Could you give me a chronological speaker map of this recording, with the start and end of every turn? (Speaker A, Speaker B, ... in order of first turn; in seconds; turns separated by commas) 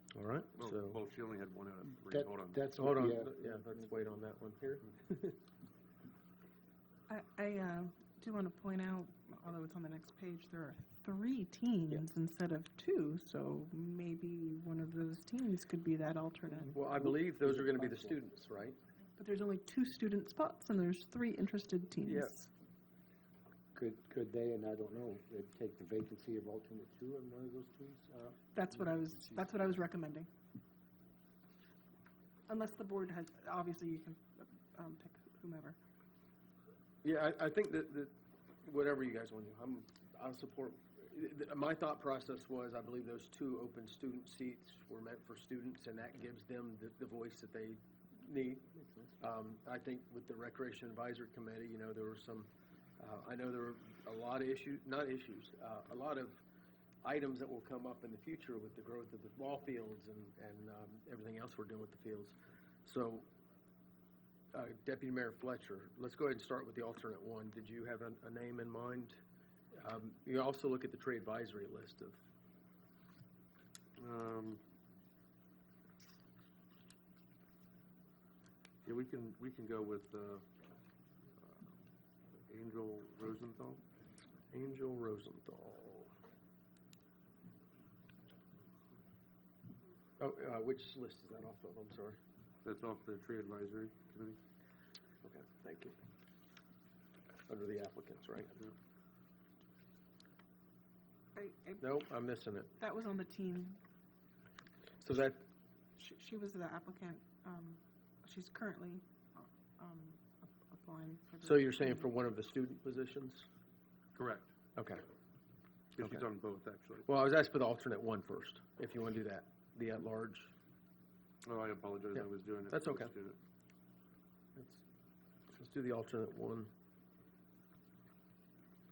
Speaker A: 0.1-1.0, Speaker B: 0.6-2.7, Speaker C: 2.1-4.0, Speaker A: 2.8-5.4, Speaker D: 7.1-16.8, Speaker C: 16.6-18.2, Speaker A: 16.7-18.8, Speaker D: 19.2-22.5, Speaker A: 22.0-22.3, Speaker C: 23.7-29.6, Speaker D: 28.5-30.3, Speaker D: 32.5-35.8, Speaker A: 37.0-56.4, Speaker A: 57.0-63.3, Speaker A: 64.5-69.2, Speaker A: 69.7-72.2, Speaker B: 74.0-74.6, Speaker B: 78.8-80.5, Speaker B: 81.4-81.7, Speaker B: 82.5-83.8, Speaker A: 84.5-86.1, Speaker A: 90.2-92.2, Speaker B: 92.6-94.4, Speaker A: 95.2-96.0, Speaker A: 97.5-98.6, Speaker D: 101.3-102.0, Speaker A: 101.8-102.7, Speaker D: 102.8-103.8, Speaker A: 105.0-105.4, Speaker D: 106.0-112.2, Speaker A: 111.4-113.5, Speaker B: 114.2-114.5, Speaker A: 114.8-115.0, Speaker B: 115.9-117.1, Speaker A: 116.0-116.2, Speaker A: 117.0-120.5, Speaker B: 121.5-123.4, Speaker A: 122.1-123.1, Speaker A: 124.5-124.8, Speaker A: 125.5-126.7